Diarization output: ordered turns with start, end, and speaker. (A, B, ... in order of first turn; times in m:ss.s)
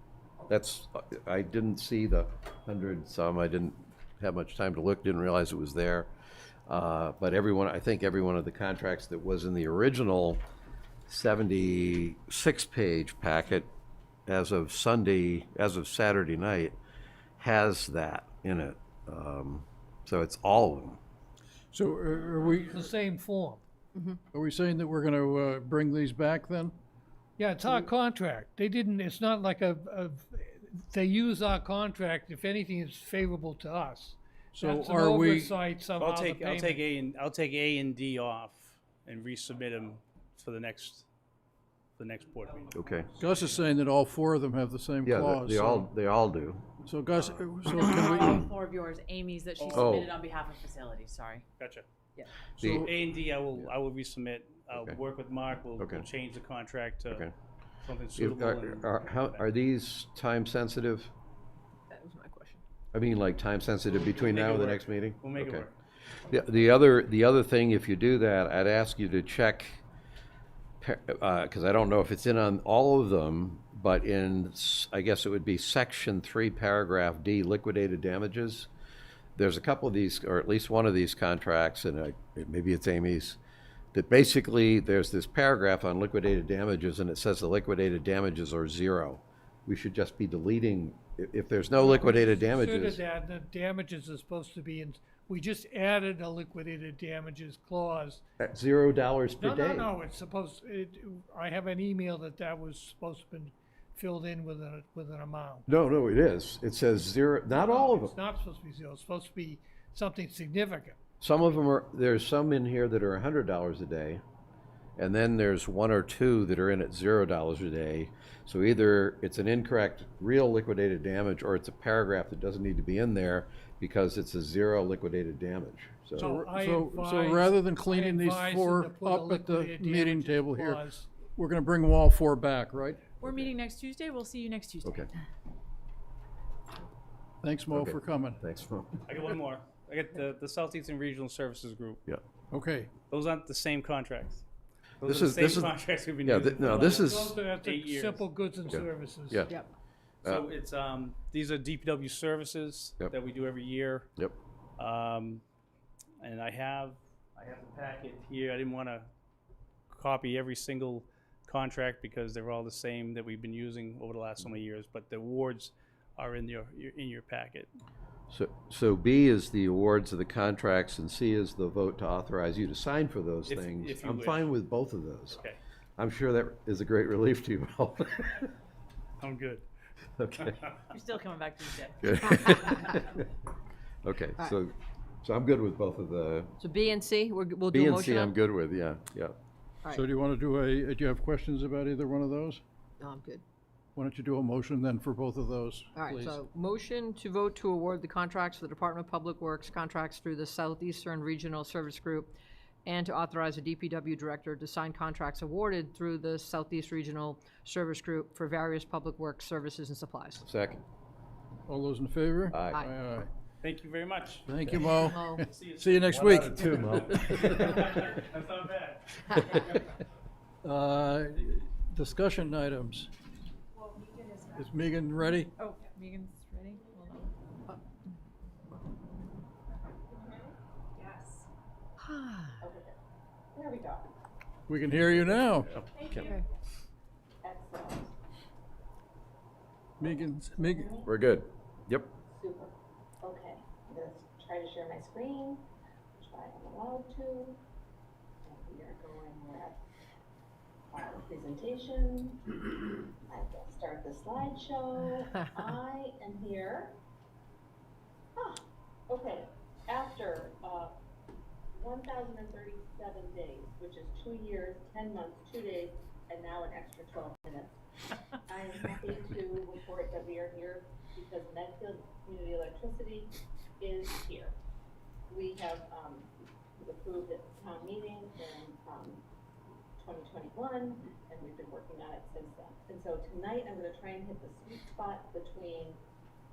0:00.4-0:06.1 A
0:06.7-0:10.4 A
0:11.1-0:13.7 A
0:14.3-0:16.8 A
0:17.4-0:21.0 A
0:21.7-0:22.8 B
0:22.7-0:23.6 C
0:24.3-0:26.8 B
0:27.4-0:36.8 C
0:34.6-0:35.6 B
0:36.0-0:41.1 D
0:42.0-0:43.6 D
0:42.8-0:43.1 A
0:43.2-0:45.9 B
0:45.0-0:46.7 A
0:46.8-0:48.5 B
0:47.7-0:51.4 E
0:49.6-0:50.0 D
0:49.7-0:50.1 A
0:51.6-0:51.9 D
0:52.6-0:52.9 A
0:52.6-0:52.9 B
0:52.7-0:57.3 D
0:54.7-0:55.0 A
0:55.8-0:56.0 A
0:57.8-0:59.4 D
0:58.2-1:01.1 A
1:01.9-1:02.6 F
1:02.9-1:05.7 A
1:03.9-1:05.7 D
1:06.3-1:09.8 A
1:10.8-1:18.7 A
1:19.4-1:23.4 A
1:23.9-1:33.0 A
1:31.8-1:38.2 C
1:38.4-1:39.9 A
1:39.4-1:45.6 C
1:45.7-1:48.2 A
1:47.5-1:51.0 C
1:51.2-1:54.2 A
1:55.0-2:06.3 A
2:06.2-2:13.2 B
2:06.2-2:11.1 C
2:13.2-2:15.1 E
2:13.2-2:13.6 A
2:14.8-2:15.1 A
2:17.4-2:18.4 B
2:17.7-2:19.2 A
2:19.1-2:22.0 D
2:22.5-2:22.9 B
2:23.1-2:24.4 D
2:25.0-2:28.3 D
2:25.0-2:27.3 A
2:26.6-2:29.5 C
2:28.7-2:29.5 A
2:29.5-2:29.7 F
2:30.2-2:34.1 D
2:34.8-2:35.4 D
2:36.2-2:39.1 D
2:39.9-2:47.7 D
2:48.3-2:55.4 A
2:53.5-2:54.5 D
2:55.3-2:55.6 D
2:56.0-2:58.5 A
2:59.2-2:59.7 D
3:00.2-3:00.6 A
3:00.4-3:00.8 D
3:00.9-3:02.6 E
3:02.0-3:03.2 A
3:04.0-3:06.5 A
3:06.6-3:08.4 F
3:07.7-3:09.4 A
3:09.9-3:12.6 B
3:13.0-3:13.4 F
3:14.0-3:16.4 B
3:16.0-3:22.3 F
3:22.8-3:30.5 F
3:30.4-3:30.8 A
3:31.7-3:33.3 B
3:32.5-3:32.8 A
3:33.6-3:34.8 D
3:34.5-3:36.6 B
3:34.9-3:35.4 F
3:35.4-3:39.9 D
3:36.2-3:37.9 A
3:40.6-3:43.1 B
3:43.8-3:44.8 E
3:44.6-3:45.5 B
3:45.4-3:47.3 E
3:50.1-3:50.6 G
3:51.0-3:51.5 E
3:52.6-3:53.0 G
3:53.5-3:54.1 G
3:54.7-3:55.8 B
3:55.7-3:56.3 A
3:55.8-3:56.4 G
3:57.4-3:58.1 G
4:00.0-4:01.0 B
4:00.0-4:01.1 G
4:01.0-4:02.1 A
4:02.3-4:05.6 G
4:06.2-4:07.6 G
4:08.4-4:09.8 G
4:10.9-4:17.0 G
4:18.4-4:20.9 G
4:21.7-4:27.7 G
4:28.5-4:34.5 G
4:35.3-4:39.2 G
4:40.0-4:46.0 G